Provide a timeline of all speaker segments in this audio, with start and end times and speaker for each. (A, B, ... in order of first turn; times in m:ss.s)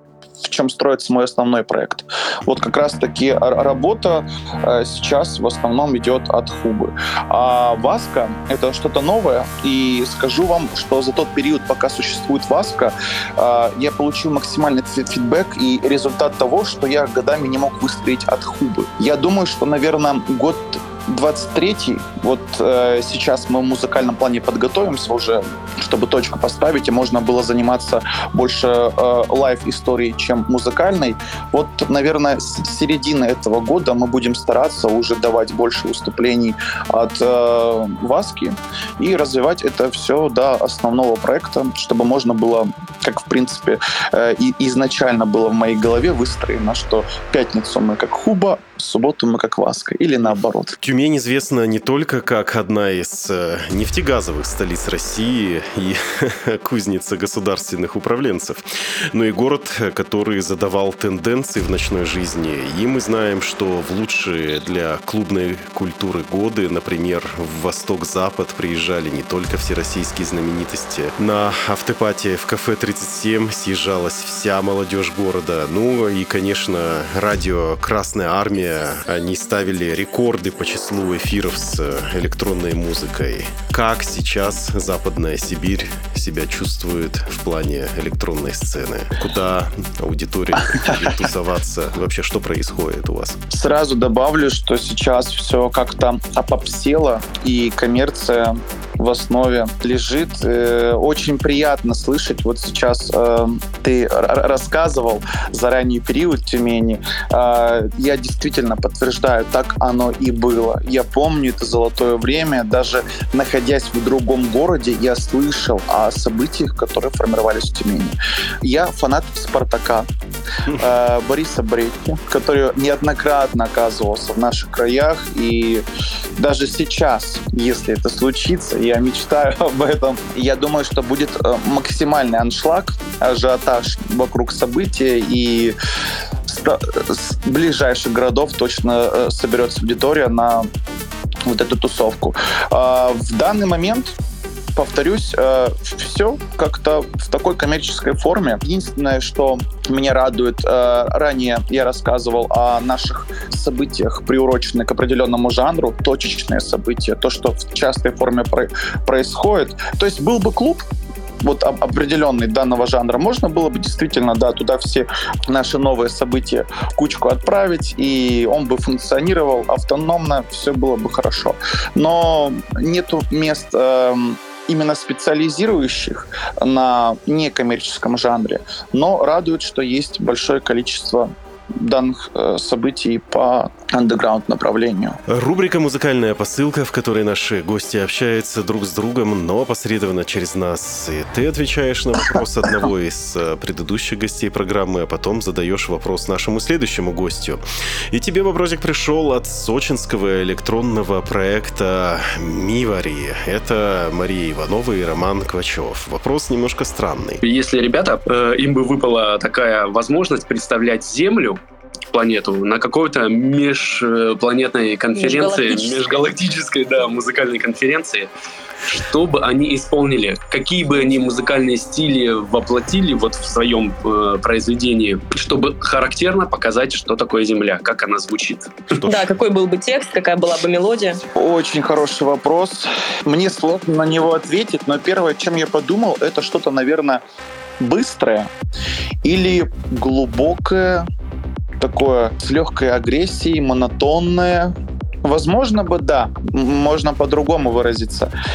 0:00.4-0:50.8 A
0:50.2-1:33.4 B
1:33.5-2:00.1 A
2:00.8-2:05.8 A
2:06.4-2:15.7 A
2:16.4-2:20.7 A
2:21.5-2:24.2 A
2:24.7-2:40.8 A
2:41.4-3:05.2 A
3:05.3-3:27.4 B
3:27.4-3:31.6 C
3:32.1-3:38.3 C
3:35.2-3:36.0 D
3:38.8-3:48.9 C
3:48.9-3:49.3 B
3:49.0-3:51.2 D
3:51.3-3:57.2 A
3:57.8-3:58.5 A
3:59.2-4:01.1 A
4:01.8-4:08.3 A